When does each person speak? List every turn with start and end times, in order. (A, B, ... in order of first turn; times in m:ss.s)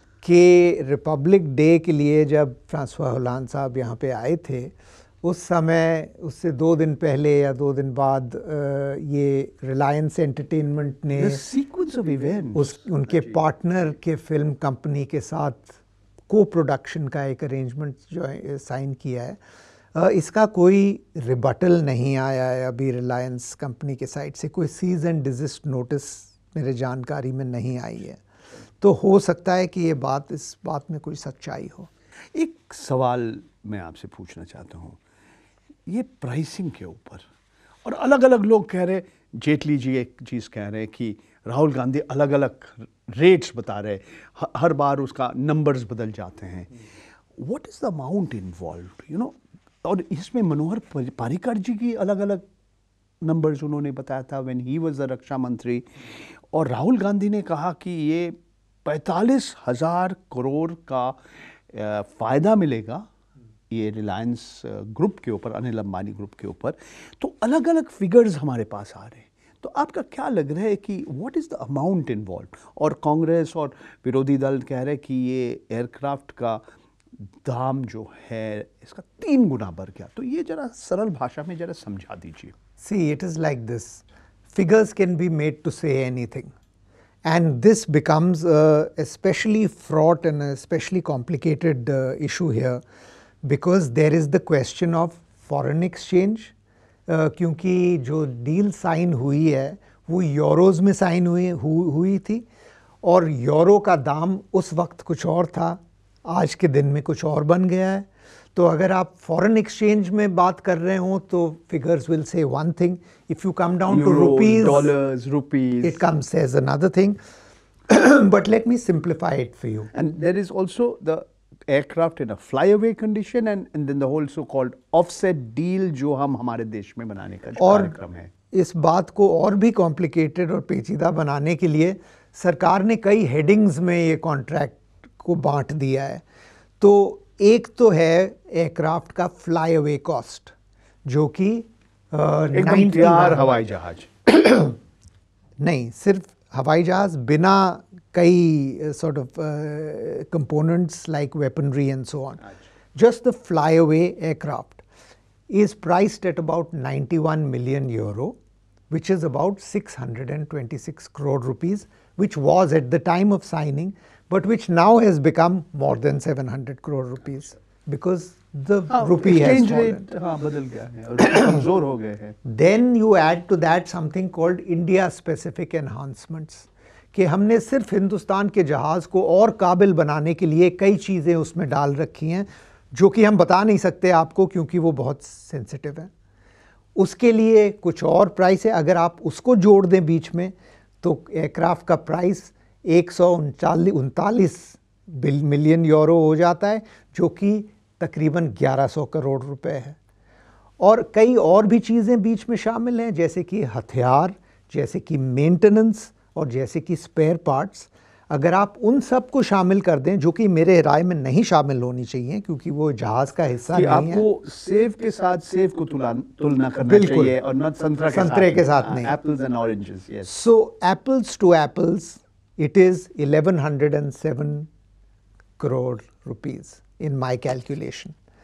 0:00.2-0:11.4 A
0:11.1-0:13.4 B
0:12.5-0:15.8 A
0:16.3-0:19.4 A
0:19.9-0:28.2 A
0:28.8-0:31.9 A
0:32.3-0:35.0 B
0:35.9-0:37.2 B
0:37.8-0:46.7 B
0:47.4-0:52.4 B
0:53.2-1:01.2 B
1:01.7-1:03.1 B
1:03.7-1:16.6 B
1:17.4-1:22.5 B
1:22.8-1:26.5 A
1:27.2-1:32.8 A
1:33.4-1:36.5 A
1:37.1-1:42.5 A
1:43.0-1:54.9 A
1:53.9-1:56.0 B
1:55.8-1:57.2 A
1:57.9-1:59.9 A
1:59.9-2:08.3 B
2:07.6-2:08.0 A
2:08.5-2:16.2 A
2:16.8-2:20.5 A
2:21.0-2:23.5 A
2:22.5-2:24.1 B
2:24.3-2:24.8 A
2:25.6-2:32.4 A
2:33.0-2:34.8 A
2:35.5-2:38.4 A
2:38.9-2:50.0 A
2:48.9-2:52.4 B
2:52.4-3:06.1 A
3:07.0-3:20.0 A
3:20.8-3:34.2 A
3:33.7-3:40.3 B
3:36.8-3:37.4 A
3:38.1-3:39.1 A
3:40.3-3:44.7 A
3:45.6-3:48.2 A